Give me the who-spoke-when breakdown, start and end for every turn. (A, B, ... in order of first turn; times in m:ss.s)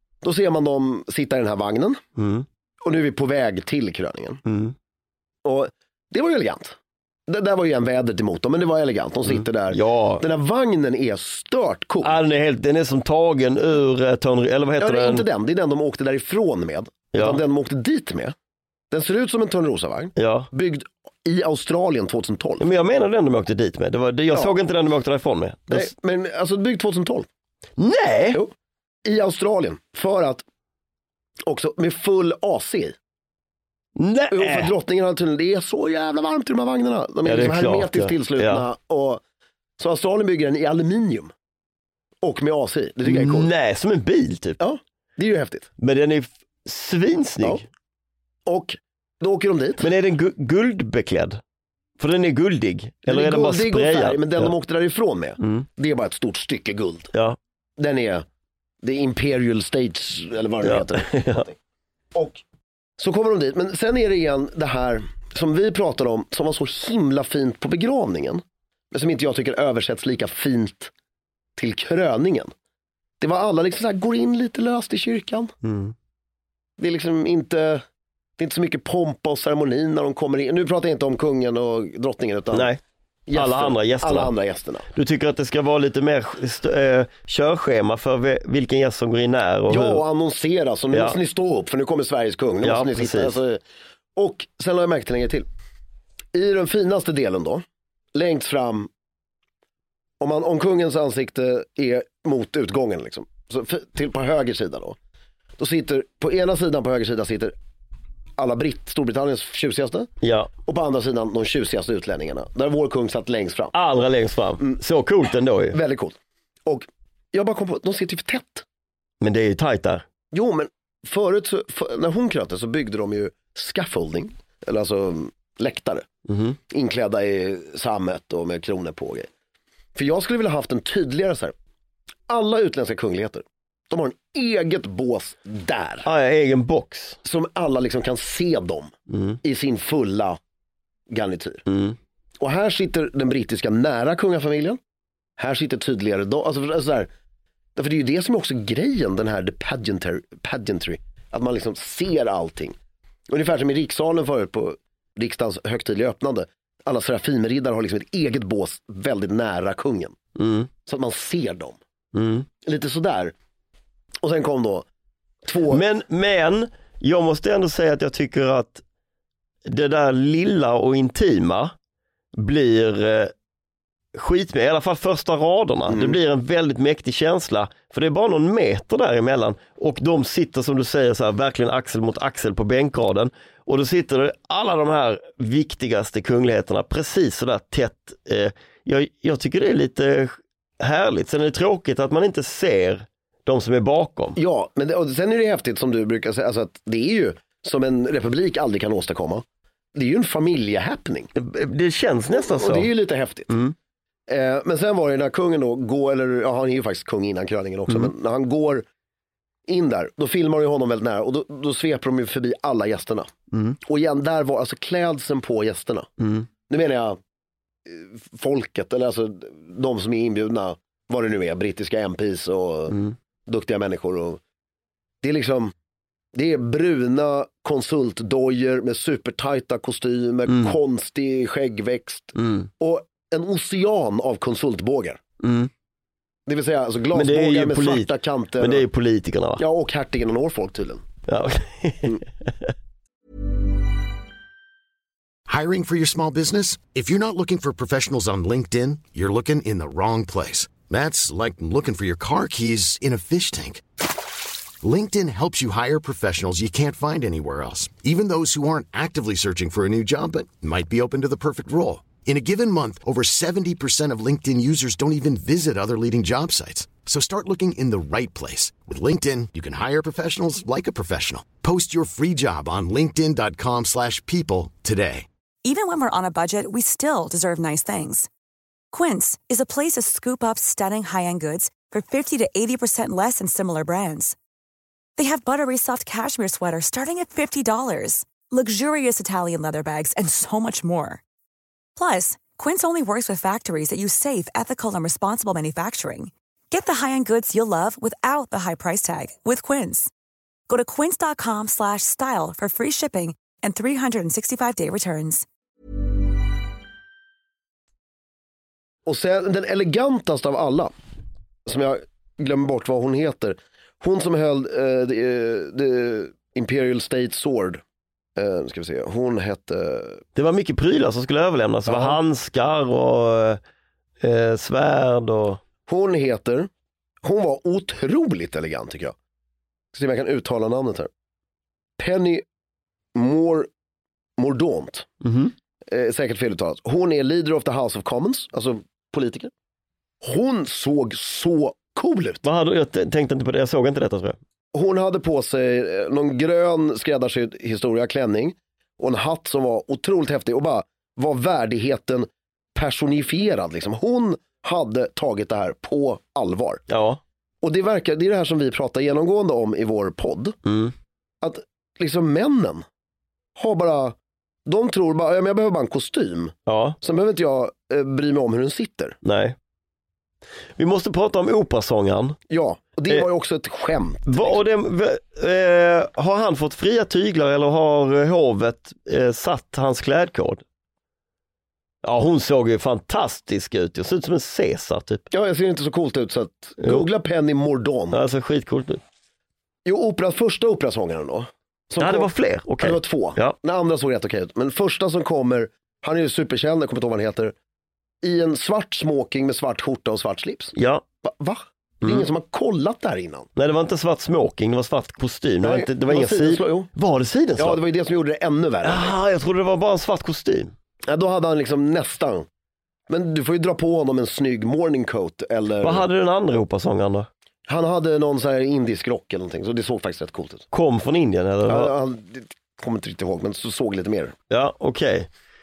0:00.2-0:02.0 A
0:02.2-0:02.5 B
0:02.8-0:04.4 A
0:04.5-0:04.8 B
0:05.4-0:12.2 A
0:09.3-0:10.2 B
0:12.0-0:15.2 B
0:14.8-0:18.4 A
0:17.1-0:17.4 B
0:18.9-0:22.6 A
0:20.2-0:20.5 B
0:22.6-0:25.9 B
0:25.7-0:27.3 A
0:27.8-0:28.4 B
0:29.0-0:30.4 A
0:31.4-0:33.0 A
0:34.0-0:34.7 B
0:34.3-0:39.2 A
0:37.2-0:38.6 B
0:39.8-0:41.3 A
0:42.2-0:43.5 A
0:43.0-0:44.6 B
0:44.6-0:45.7 A
0:45.8-0:47.6 B
0:48.5-0:49.9 A
0:49.8-0:51.4 B
0:52.0-0:54.5 B
0:53.1-0:57.1 A
0:55.4-0:55.7 B
0:57.8-0:58.2 A
0:58.8-1:01.6 A
1:00.6-1:01.5 B
1:02.1-1:02.4 A
1:03.0-1:10.9 A
1:11.6-1:12.5 A
1:13.2-1:15.5 A
1:15.6-1:15.9 B
1:16.8-1:17.8 A
1:18.4-1:22.7 A
1:22.5-1:22.8 B
1:23.3-1:24.9 A
1:23.3-1:24.3 B
1:24.9-1:30.0 B
1:29.7-1:33.6 A
1:32.6-1:33.4 B
1:34.2-1:35.5 A
1:36.3-1:38.9 A
1:40.2-1:45.0 A
1:45.6-1:47.6 A
1:48.4-1:50.1 A
1:50.2-1:50.5 B
1:50.6-1:53.7 A
1:53.7-1:55.8 B
1:55.7-1:58.6 A
1:59.2-2:00.0 B
2:00.3-2:06.1 A
2:06.3-2:06.6 B
2:06.7-2:09.3 A
2:10.0-2:11.5 A
2:12.3-2:16.1 A
2:16.0-2:17.2 B
2:17.2-2:20.4 A
2:19.1-2:19.4 B
2:21.1-2:21.6 A
2:21.7-2:22.0 B
2:22.4-2:24.8 A
2:25.4-2:27.1 A
2:27.8-2:32.8 A
2:33.3-2:40.2 A
2:40.4-2:40.7 B
2:40.9-2:41.8 A
2:42.1-2:42.5 B
2:42.6-2:43.3 A
2:44.2-2:44.9 A
2:45.4-2:45.8 A
2:45.7-2:48.8 B
2:49.7-2:51.7 B
2:52.4-2:53.3 B
2:54.1-3:14.4 B
2:55.9-2:56.2 A
3:14.4-3:21.3 A
3:21.4-3:22.9 B
3:22.3-3:23.6 A
3:24.3-3:28.8 A
3:29.7-3:36.1 A
3:33.5-3:33.8 B
3:36.2-3:36.5 B
3:36.7-3:37.2 A
3:37.9-3:44.4 A
3:45.2-3:45.7 A
3:46.3-3:55.2 A
3:50.5-3:50.8 B
3:52.4-3:52.7 B
3:55.4-3:55.7 B
3:56.5-3:58.8 A
3:57.1-3:59.6 B
3:59.6-4:01.0 A
4:01.3-4:02.7 B
4:05.5-4:13.8 C
4:14.8-4:35.3 C
4:35.6-4:38.3 D
4:38.9-4:44.4 D
4:45.2-4:51.2 D
4:52.0-5:00.1 D
5:00.7-5:05.5 D
5:09.1-5:10.9 A
5:11.7-5:17.8 A
5:18.4-5:20.2 A
5:20.4-5:23.6 B
5:21.9-5:22.2 A
5:24.2-5:25.6 B
5:25.9-5:26.7 A
5:27.2-5:29.2 A
5:29.9-5:31.1 A
5:32.0-5:32.4 A
5:33.2-5:33.7 A
5:34.4-5:35.1 A
5:35.2-5:35.5 B
5:35.9-5:39.5 A
5:40.2-5:42.4 A
5:42.4-5:44.4 B
5:44.7-5:56.8 A
5:56.9-5:57.2 B
5:57.6-6:00.6 A
6:00.7-6:00.9 B
6:01.4-6:02.8 A
6:03.6-6:09.2 A
6:06.7-6:07.0 B
6:09.2-6:09.6 B
6:10.8-6:12.4 B
6:12.5-6:14.6 A
6:14.3-6:20.6 B
6:22.0-6:25.3 B
6:25.3-6:28.2 A
6:26.8-6:27.1 B
6:28.1-6:29.0 B
6:29.9-6:37.5 A
6:32.0-6:33.6 B
6:38.2-6:43.5 A
6:40.8-6:41.0 B
6:42.0-6:42.3 B
6:43.6-6:47.8 B
6:45.6-6:46.9 A
6:47.6-6:49.1 A
6:48.8-6:50.7 B
6:51.1-6:52.5 A
6:53.1-6:56.1 A
6:55.8-6:57.3 B
6:57.7-7:00.7 A
7:00.7-7:01.9 B
7:01.7-7:04.4 A
7:04.5-7:05.3 B